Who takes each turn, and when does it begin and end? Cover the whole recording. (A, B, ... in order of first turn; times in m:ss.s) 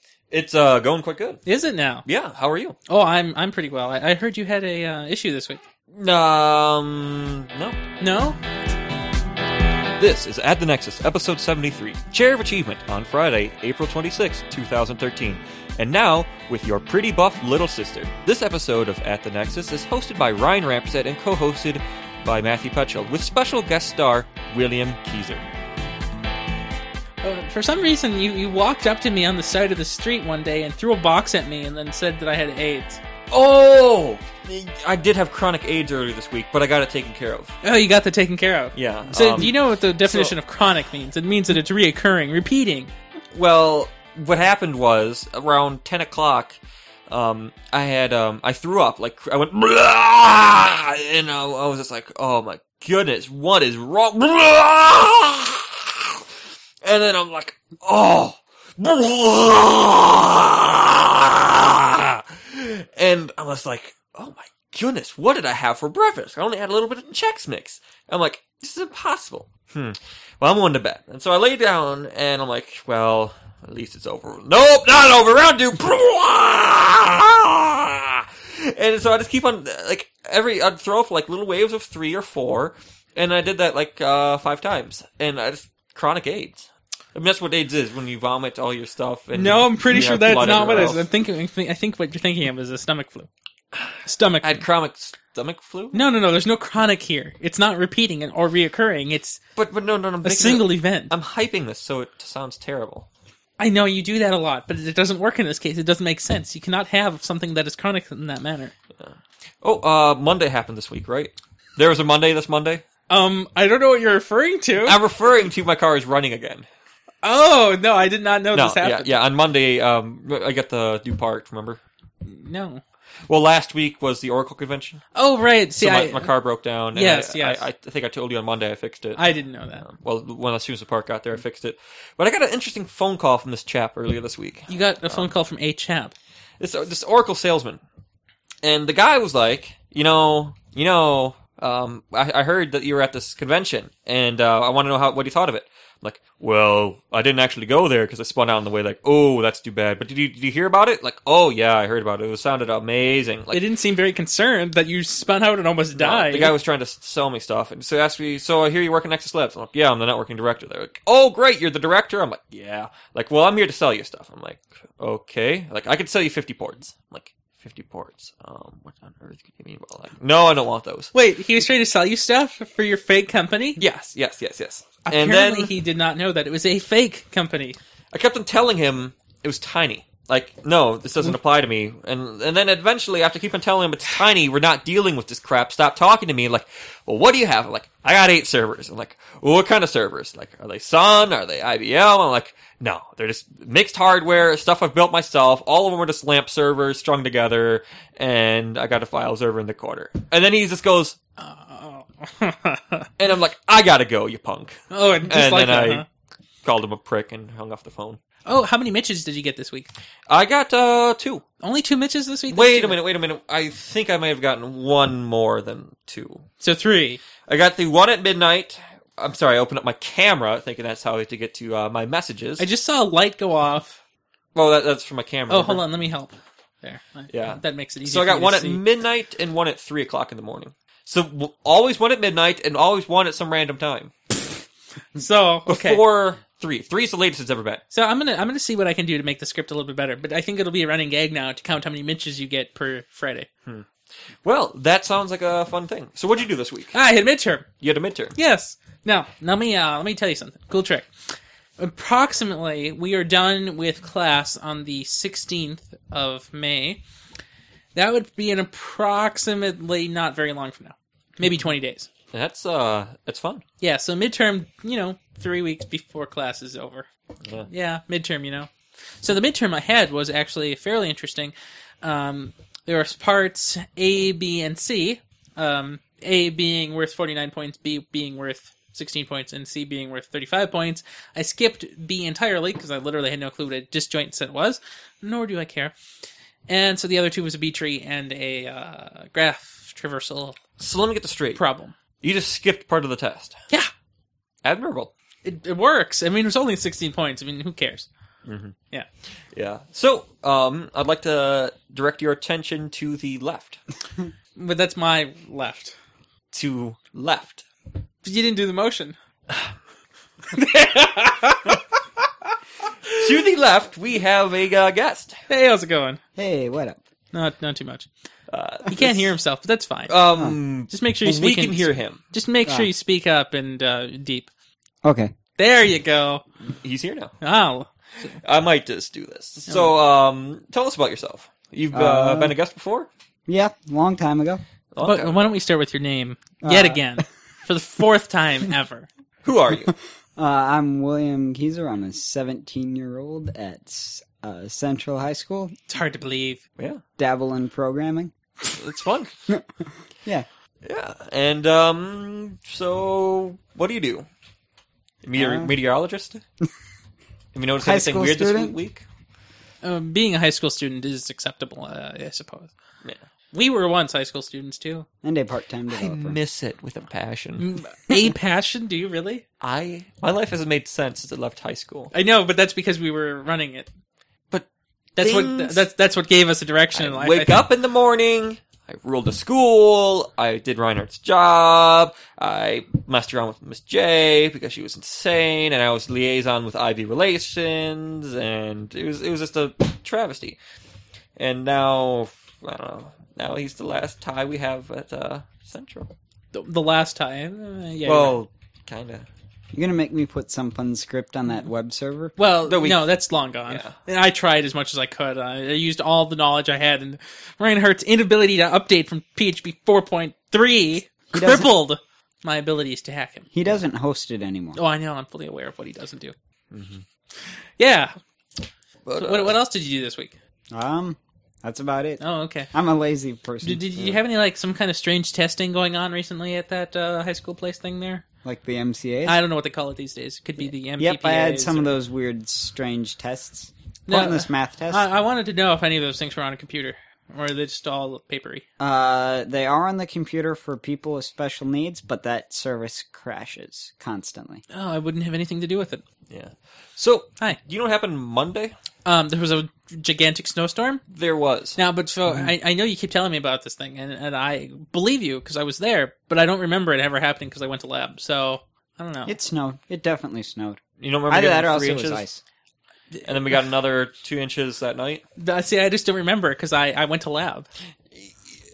0:00.3-0:01.4 A
0:01.4-0:02.0 B
0:02.0-0:02.8 A
0:02.9-0:05.6 B
0:05.9-0:07.8 A
0:08.0-0:08.4 B
0:10.0-0:25.4 A
0:27.2-0:33.0 B
0:33.3-0:37.6 A
0:37.6-0:42.9 B
0:38.7-0:40.4 A
0:43.3-0:56.2 A
0:56.8-1:31.1 A
1:29.3-1:33.3 B
1:33.7-1:36.0 A
1:34.0-1:34.6 B
1:35.9-1:39.4 B
1:39.6-1:43.1 A
1:40.2-1:41.1 B
1:43.6-1:48.7 B
1:49.0-1:52.8 A
1:53.1-1:55.0 B
1:54.8-1:56.7 A
1:57.2-1:59.1 B
1:58.5-2:01.8 A
2:02.2-2:02.8 B
2:03.3-2:05.0 A
2:05.1-2:06.3 B
2:05.8-2:09.3 A
2:06.9-2:07.6 B
2:09.1-2:09.8 B
2:09.8-2:15.3 A
2:14.7-2:16.1 B
2:16.6-2:17.8 A
2:18.6-2:33.6 A
2:33.5-2:36.5 B
2:35.9-2:51.1 A
2:51.1-2:53.8 B
2:53.8-2:55.7 A
2:55.0-2:57.8 B
2:58.1-3:21.2 A
3:21.4-3:23.1 B
3:23.2-3:26.0 A
3:24.9-3:26.0 B
3:26.6-3:28.2 A
3:28.4-3:29.9 B
3:30.3-3:31.4 A
3:31.6-3:33.0 B
3:32.5-3:36.4 A
3:36.6-3:37.2 B
3:37.4-3:42.6 A
3:42.6-3:44.0 B
3:44.5-3:45.8 A
3:45.5-3:48.8 B
3:47.3-3:54.1 A
3:55.2-3:56.0 B
3:55.7-3:57.8 A
3:57.9-4:03.5 B
4:04.4-4:07.0 A
4:06.9-4:07.7 B
4:07.8-4:08.3 A
4:08.3-4:11.1 B
4:11.8-4:17.0 B
4:17.9-4:22.1 B
4:22.3-4:23.6 A
4:23.8-4:27.1 B
4:27.6-4:28.7 B
4:29.2-4:45.9 B
4:46.7-4:50.6 B
4:50.8-4:51.6 A
4:51.6-4:51.9 B
4:52.2-4:53.6 A
4:54.6-4:55.1 A
4:55.4-4:58.1 B
4:58.4-4:58.8 A
4:59.5-5:03.8 A
5:04.6-5:05.9 B
5:06.5-5:07.6 A
5:08.2-5:09.1 B
5:10.5-5:12.5 B
5:13.1-5:15.4 A
5:15.5-5:16.2 B
5:16.4-5:17.0 C
5:17.3-5:18.1 B
5:18.5-5:19.3 A
5:18.9-5:20.1 B
5:20.1-5:22.2 A
5:20.9-5:24.5 B
5:25.0-5:25.3 C
5:25.6-5:26.4 B
5:26.7-5:27.3 A
5:27.4-5:28.3 B
5:28.4-5:33.1 A
5:31.9-5:32.5 C
5:33.5-5:34.6 C
5:34.9-5:35.5 A
5:35.0-5:39.1 B
5:36.6-5:37.0 C
5:39.4-5:39.9 A
5:40.4-5:45.7 C
5:45.9-5:46.6 B
5:47.2-5:48.3 C
5:48.8-5:49.3 A
5:49.5-5:50.4 C
5:50.8-5:54.3 A
5:55.2-5:56.4 A
5:55.4-5:55.7 C
5:57.5-5:59.0 A
5:57.8-5:58.7 C
5:59.8-6:02.7 B
6:03.5-6:05.0 B
6:05.2-6:06.4 C
6:05.9-6:07.7 A
6:07.6-6:09.4 B
6:09.6-6:12.1 A
6:12.1-6:13.9 B
6:15.2-6:15.8 A
6:15.2-6:17.6 B
6:16.9-6:30.6 A
6:31.4-6:36.1 A
6:36.5-6:38.4 B
6:38.0-6:39.2 A
6:39.7-6:42.3 C
6:42.4-6:53.5 B
6:42.7-6:43.1 A
6:43.7-6:43.9 A
6:51.3-6:51.7 C
6:53.5-6:54.8 C
6:54.8-6:56.3 B
6:56.7-6:57.0 A
6:57.8-6:58.2 B
6:59.0-6:59.6 A
6:59.2-7:00.3 B
7:00.7-7:02.2 C
7:02.2-7:02.7 B
7:02.7-7:03.8 C
7:03.6-7:08.2 B
7:08.4-7:09.4 C
7:09.2-7:11.9 B
7:11.0-7:15.1 C
7:14.1-7:18.6 B
7:18.8-7:24.6 C
7:24.7-7:26.0 B
7:26.3-7:28.7 A
7:29.0-7:31.0 B
7:31.1-7:31.8 A
7:31.8-7:39.3 B
7:39.2-7:42.4 C
7:41.0-7:42.2 A
7:43.2-7:45.2 A
7:45.4-7:47.7 B